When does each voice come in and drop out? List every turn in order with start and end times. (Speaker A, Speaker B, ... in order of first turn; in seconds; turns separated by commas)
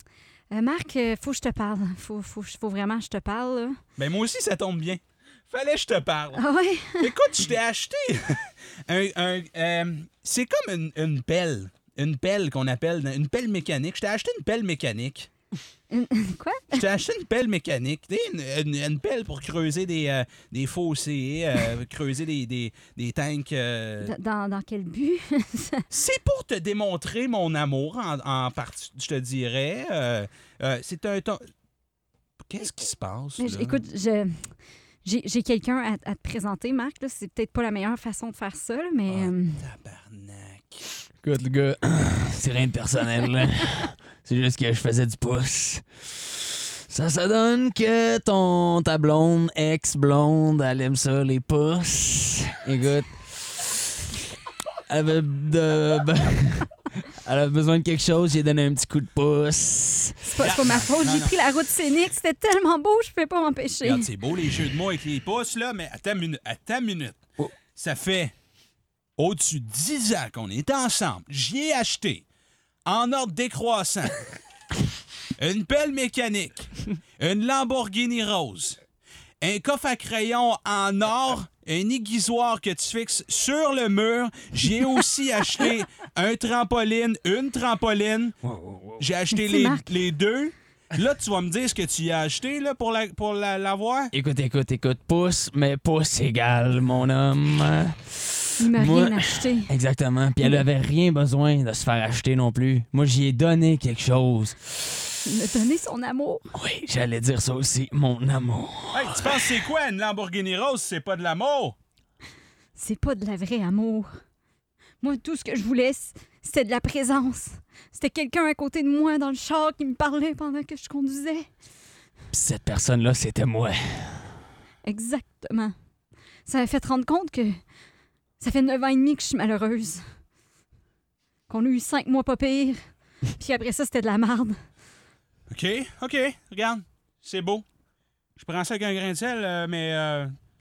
Speaker A: 0.5-3.8, Speaker B: 4.0-15.3, Speaker A: 6.3-7.1, Speaker A: 15.9-16.8, Speaker B: 16.7-24.1, Speaker A: 24.0-25.9, Speaker B: 25.9-31.4, Speaker B: 32.4-33.8, Speaker A: 33.4-39.6, Speaker B: 39.1-40.9, Speaker C: 41.2-53.9, Speaker C: 54.9-60.2, Speaker A: 60.2-64.1, Speaker B: 60.4-61.4, Speaker B: 63.8-67.2, Speaker B: 67.7-68.3, Speaker B: 69.2-72.2, Speaker B: 72.8-74.2, Speaker B: 75.4-78.8, Speaker B: 79.4-88.4, Speaker C: 88.4-89.0, Speaker B: 89.0-94.1, Speaker A: 89.3-89.9, Speaker C: 94.1-105.2, Speaker A: 98.6-99.7, Speaker A: 105.2-106.5, Speaker C: 106.5-109.6, Speaker B: 108.9-111.8, Speaker A: 112.7-114.1, Speaker A: 115.0-121.5, Speaker C: 122.3-124.3, Speaker A: 124.8-125.7, Speaker A: 126.5-127.6, Speaker A: 128.4-130.0, Speaker A: 131.5-134.6, Speaker B: 135.5-137.7, Speaker B: 138.3-140.3